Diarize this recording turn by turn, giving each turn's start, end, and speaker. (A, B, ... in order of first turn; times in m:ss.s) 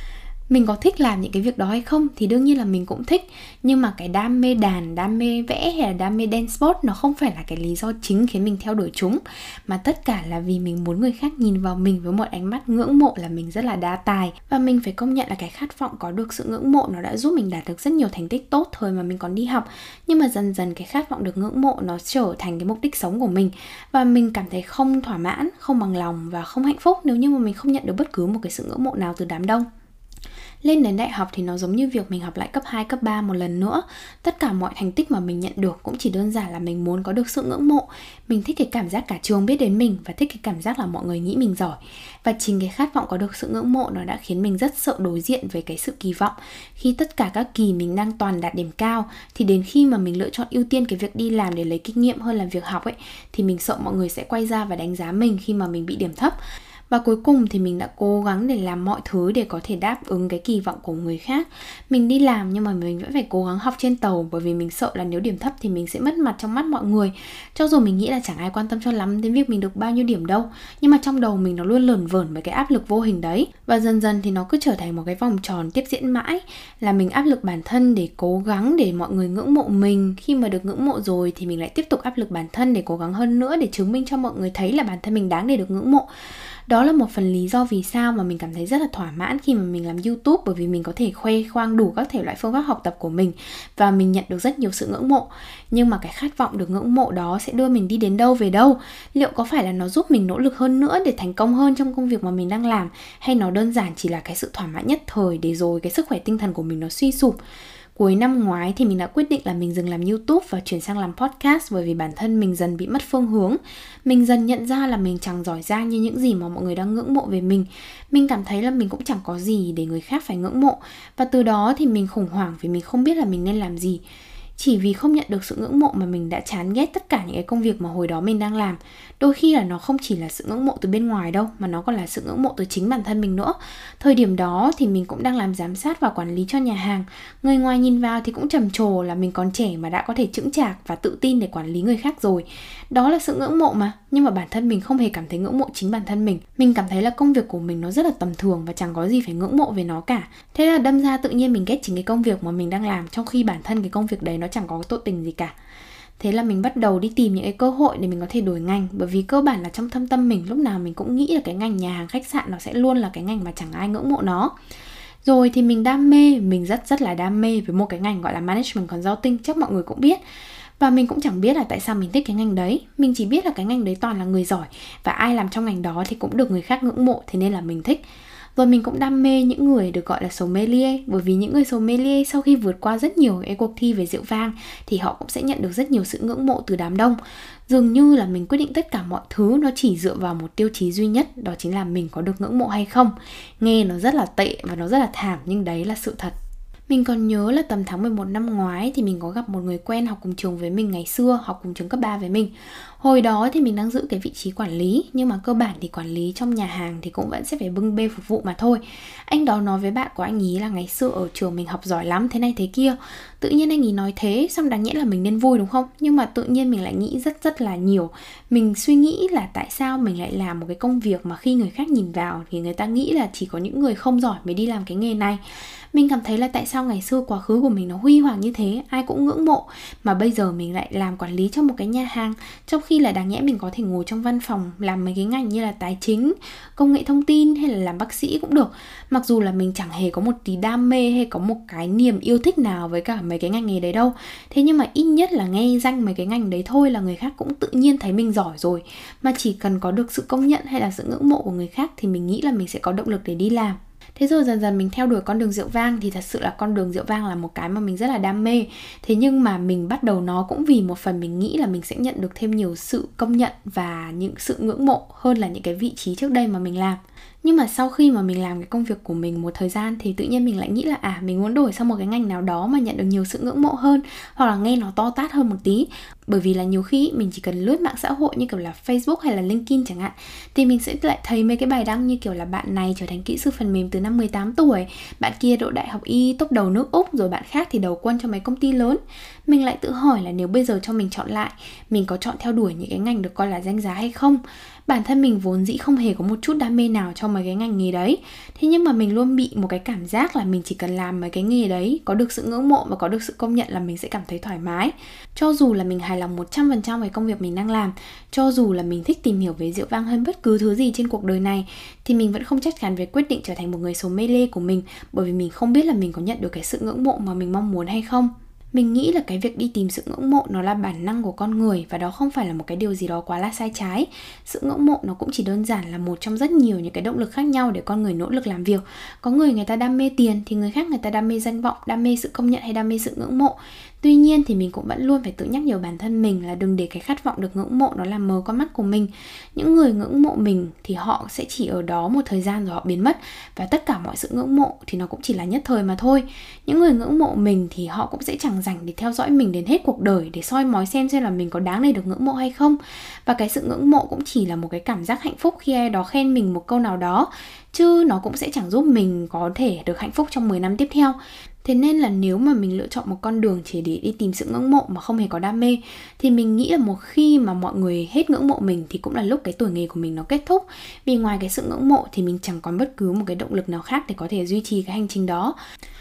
0:00.5-0:29.7 A
0:30.6-0:56.4 A
0:56.9-1:26.1 A
1:26.7-1:47.4 A
1:48.0-2:04.0 A
2:04.6-2:35.5 A
2:36.2-2:44.5 A
2:45.2-2:50.2 A
2:50.8-2:58.0 A
2:58.6-3:16.3 A
3:16.9-3:45.4 A
3:45.9-6:15.5 A